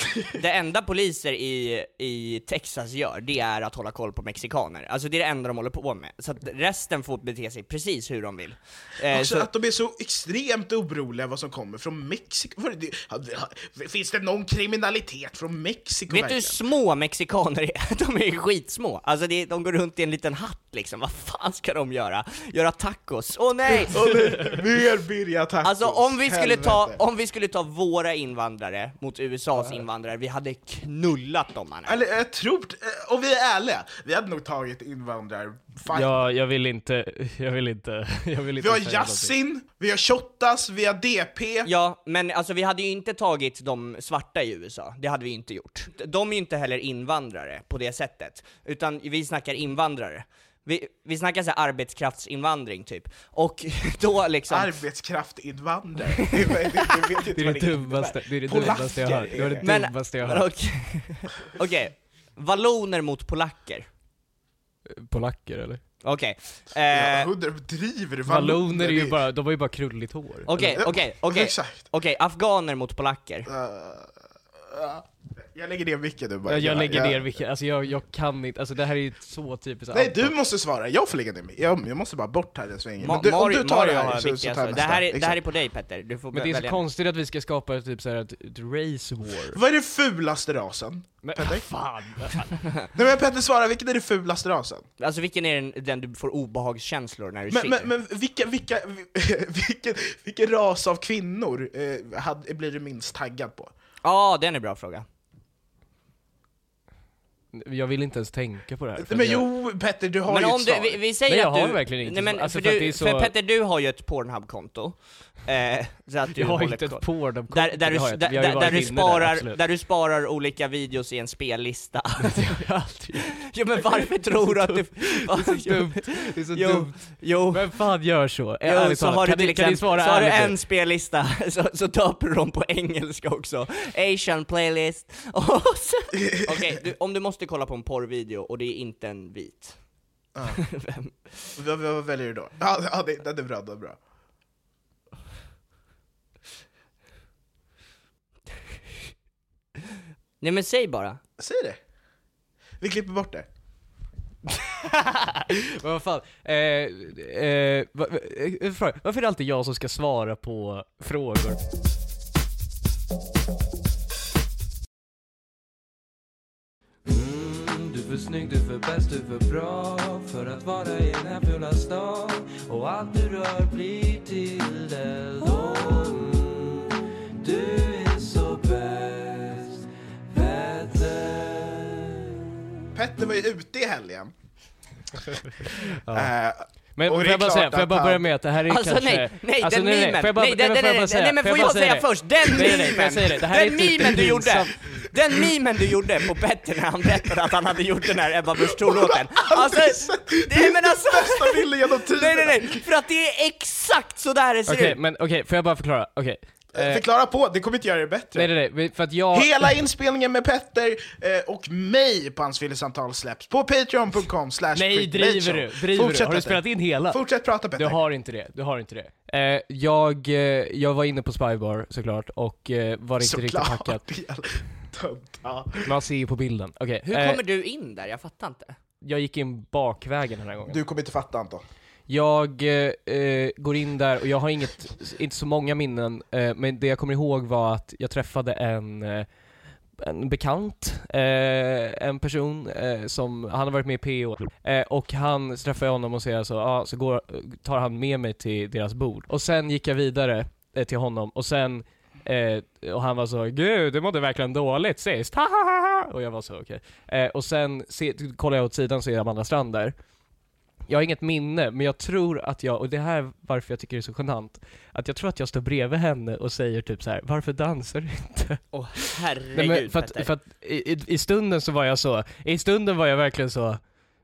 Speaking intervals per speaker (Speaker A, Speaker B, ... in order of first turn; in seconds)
Speaker A: 0.3-9.5, 16.1-24.0, 25.6-32.0, 41.6-54.7, 59.6-63.9, 66.0-67.3, 70.5-73.5, 83.0-86.8, 95.0-97.9, 104.0-105.0, 110.3-122.6, 123.4-127.8, 128.6-139.8, 140.5-141.4, 150.4-151.2, 188.7-205.0, 227.1-228.8, 268.7-270.3
Speaker B: 9.1-16.6, 23.9-27.0, 31.9-36.2, 38.6-41.7, 54.5-59.7, 66.9-69.2, 70.7-71.9, 73.5-77.4, 79.9-85.4, 89.5-91.7, 92.9-94.8, 97.5-103.7, 109.0-111.0, 136.3-136.8, 140.3-140.6, 141.6-144.0, 151.4-151.8, 152.8-153.4, 182.9-184.3, 186.1-188.3, 198.7-202.8, 206.7-208.5, 209.3-218.0, 223.2-225.9, 230.7-231.6
Speaker C: 35.9-39.3, 57.4-60.5, 64.9-65.8, 68.3-70.8, 76.5-80.3, 86.3-89.6, 91.2-92.7, 107.5-109.5, 111.3-113.3, 116.3-119.6, 122.2-123.4, 124.3-130.6, 155.3-161.6, 186.0-186.3, 186.9-195.0, 204.7-207.0, 208.3-209.7, 214.7-224.0, 225.8-227.4, 229.0-230.8, 232.1-239.3, 240.0-259.9, 260.9-268.6, 269.5-273.9
Speaker D: 167.1-179.8, 180.3-182.1